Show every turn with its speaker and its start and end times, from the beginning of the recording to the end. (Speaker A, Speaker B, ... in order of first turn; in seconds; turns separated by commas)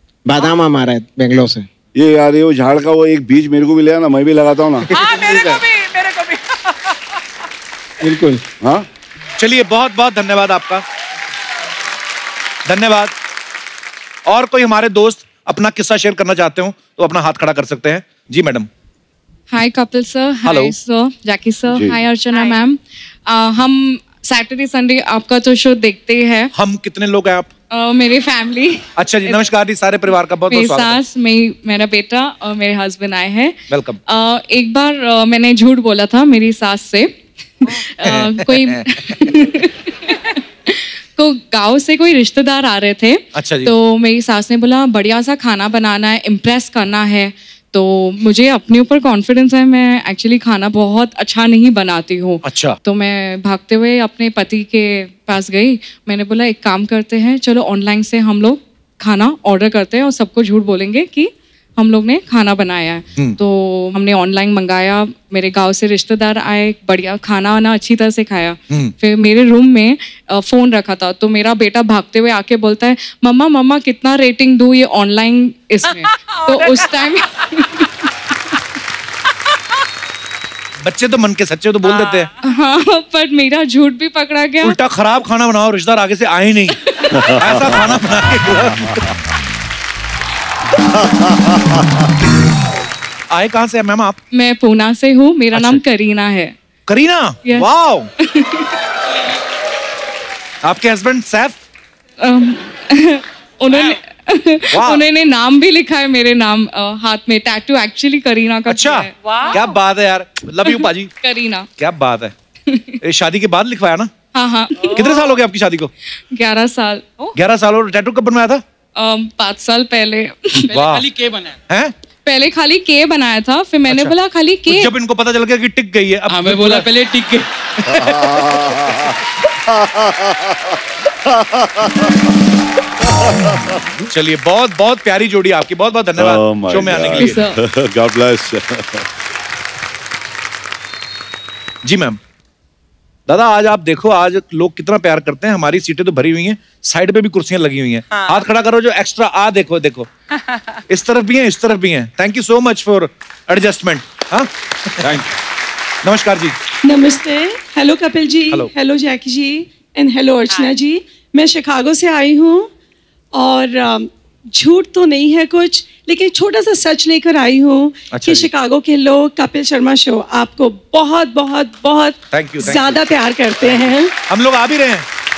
Speaker A: 0.2-1.7, Speaker B: 1.9-4.9, Speaker A: 4.9-5.6, Speaker C: 4.9-7.0, Speaker A: 8.0-8.4, Speaker B: 8.6-8.8, Speaker D: 9.4-10.8, Speaker D: 12.7-13.1, Speaker D: 14.2-18.7, Speaker E: 19.5-26.5, Speaker D: 20.4-20.7, Speaker B: 21.7-22.0, Speaker D: 26.5-27.5, Speaker E: 27.7-29.4, Speaker D: 29.0-31.0, Speaker E: 30.5-33.6, Speaker D: 33.7-34.0, Speaker E: 34.1-77.9, Speaker D: 38.0-38.8, Speaker D: 43.3-43.7, Speaker D: 52.4-52.8, Speaker C: 76.0-76.9, Speaker D: 80.8-82.3, Speaker C: 81.8-82.3, Speaker E: 82.4-84.8, Speaker D: 84.6-89.1, Speaker B: 87.1-88.2, Speaker B: 90.9-92.0, Speaker D: 93.3-94.2, Speaker E: 94.3-96.5, Speaker D: 95.5-95.8, Speaker D: 96.9-98.1, Speaker E: 98.2-98.7, Speaker D: 100.6-101.6, Speaker E: 102.2-109.1, Speaker C: 103.7-104.0, Speaker D: 104.7-105.0, Speaker D: 108.7-111.1, Speaker C: 109.2-109.8, Speaker E: 110.6-111.7, Speaker D: 111.8-112.3, Speaker E: 112.7-113.0, Speaker D: 113.0-114.1, Speaker E: 114.3-115.1, Speaker C: 114.8-115.3, Speaker D: 114.9-115.9, Speaker E: 116.3-117.0, Speaker D: 117.3-118.6, Speaker E: 119.0-120.7, Speaker D: 120.7-121.1, Speaker F: 120.7-121.6, Speaker D: 121.7-121.9, Speaker E: 122.2-124.9, Speaker D: 123.9-124.1, Speaker D: 124.7-126.9, Speaker F: 126.3-127.5, Speaker B: 127.9-132.2, Speaker B: 133.0-133.8, Speaker D: 134.1-137.4, Speaker B: 136.2-139.1, Speaker E: 137.1-137.6, Speaker D: 141.8-142.2, Speaker D: 143.3-150.1, Speaker C: 148.1-148.4, Speaker D: 150.9-155.3, Speaker D: 156.0-156.6, Speaker G: 156.8-162.7, Speaker G: 163.3-174.1, Speaker D: 168.1-168.5, Speaker D: 172.3-173.0, Speaker D: 174.3-175.1